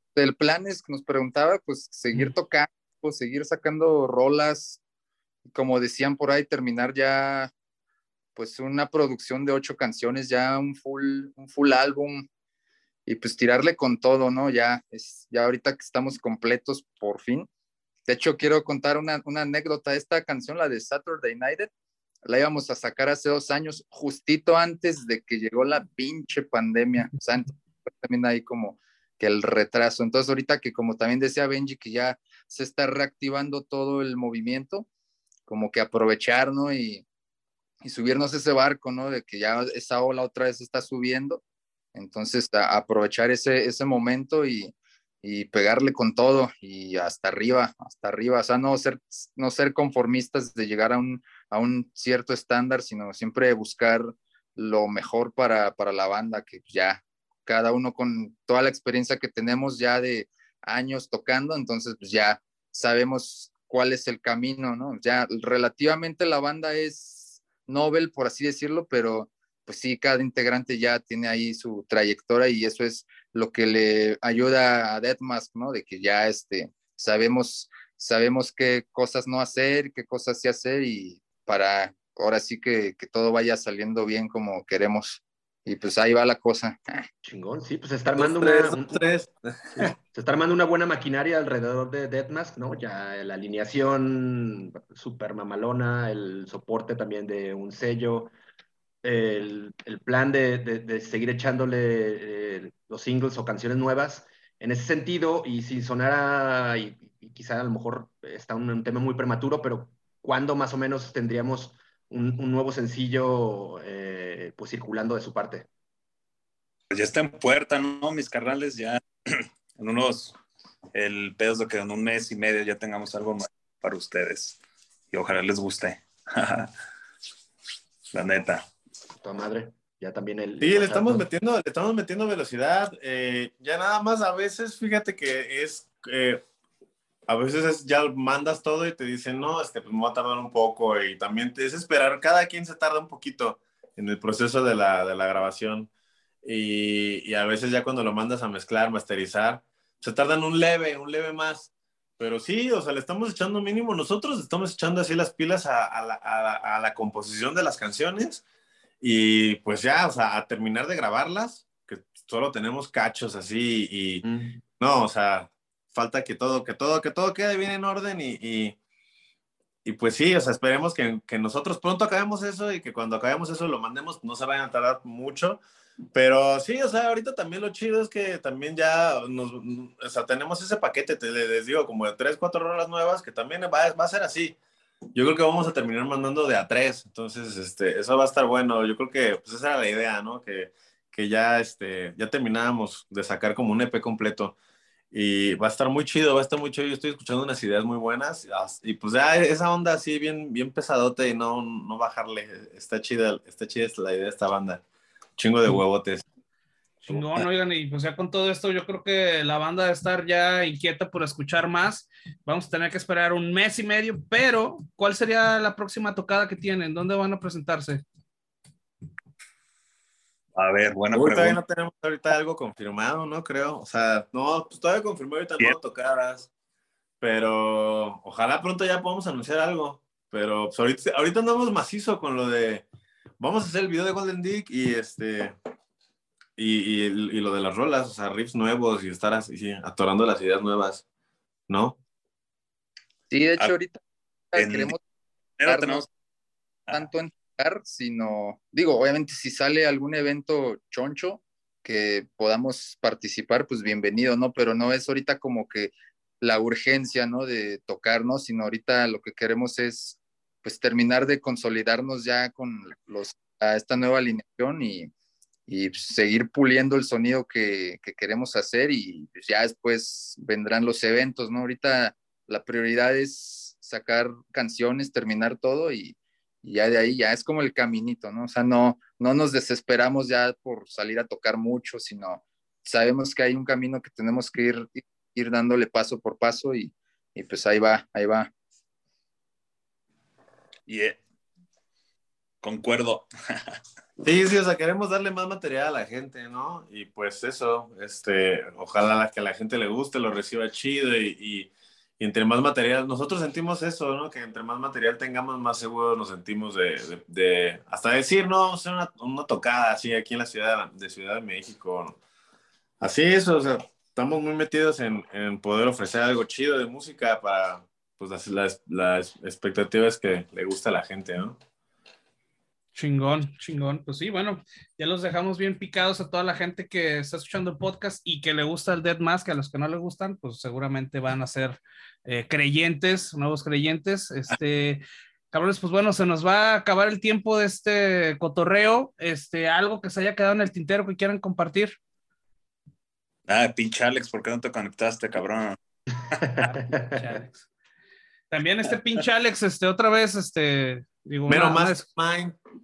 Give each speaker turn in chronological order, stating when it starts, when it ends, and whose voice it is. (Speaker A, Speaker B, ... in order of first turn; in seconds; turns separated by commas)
Speaker A: 0.2-4.8, Speaker A: 5.5-7.5, Speaker A: 8.4-12.3, Speaker A: 13.1-17.5, Speaker A: 18.1-21.7, Speaker A: 22.2-34.9, Speaker A: 35.5-37.1, Speaker A: 37.8-41.4, Speaker A: 42.0-87.1, Speaker B: 87.2-89.0, Speaker C: 88.2-89.9, Speaker B: 89.8-98.3, Speaker B: 99.0-115.7, Speaker D: 116.9-120.4, Speaker D: 120.9-124.6, Speaker D: 125.1-126.7, Speaker D: 128.1-128.7, Speaker B: 129.2-131.2, Speaker C: 130.6-136.4, Speaker C: 137.3-145.9, Speaker C: 146.4-158.4, Speaker C: 159.0-164.2, Speaker B: 164.2-164.6, Speaker C: 164.8-168.8, Speaker C: 169.8-175.6, Speaker C: 176.1-184.6, Speaker C: 185.2-194.6, Speaker C: 195.1-204.8, Speaker C: 205.4-206.2, Speaker E: 207.0-218.0, Speaker D: 220.6-221.6, Speaker C: 221.1-226.5, Speaker C: 227.2-232.9, Speaker C: 233.4-235.5, Speaker C: 236.6-241.0, Speaker C: 241.7-242.0, Speaker A: 243.3-244.0, Speaker A: 244.5-245.0, Speaker D: 244.6-244.9, Speaker D: 245.6-246.1, Speaker A: 245.7-246.1, Speaker A: 246.9-265.1, Speaker A: 265.7-288.5, Speaker D: 290.9-291.2, Speaker D: 292.6-293.7, Speaker C: 294.2-312.2, Speaker C: 313.0-321.6, Speaker E: 322.9-342.0, Speaker D: 343.5-345.8, Speaker B: 346.4-347.3, Speaker E: 346.6-347.7, Speaker E: 348.5-352.1, Speaker C: 351.5-352.6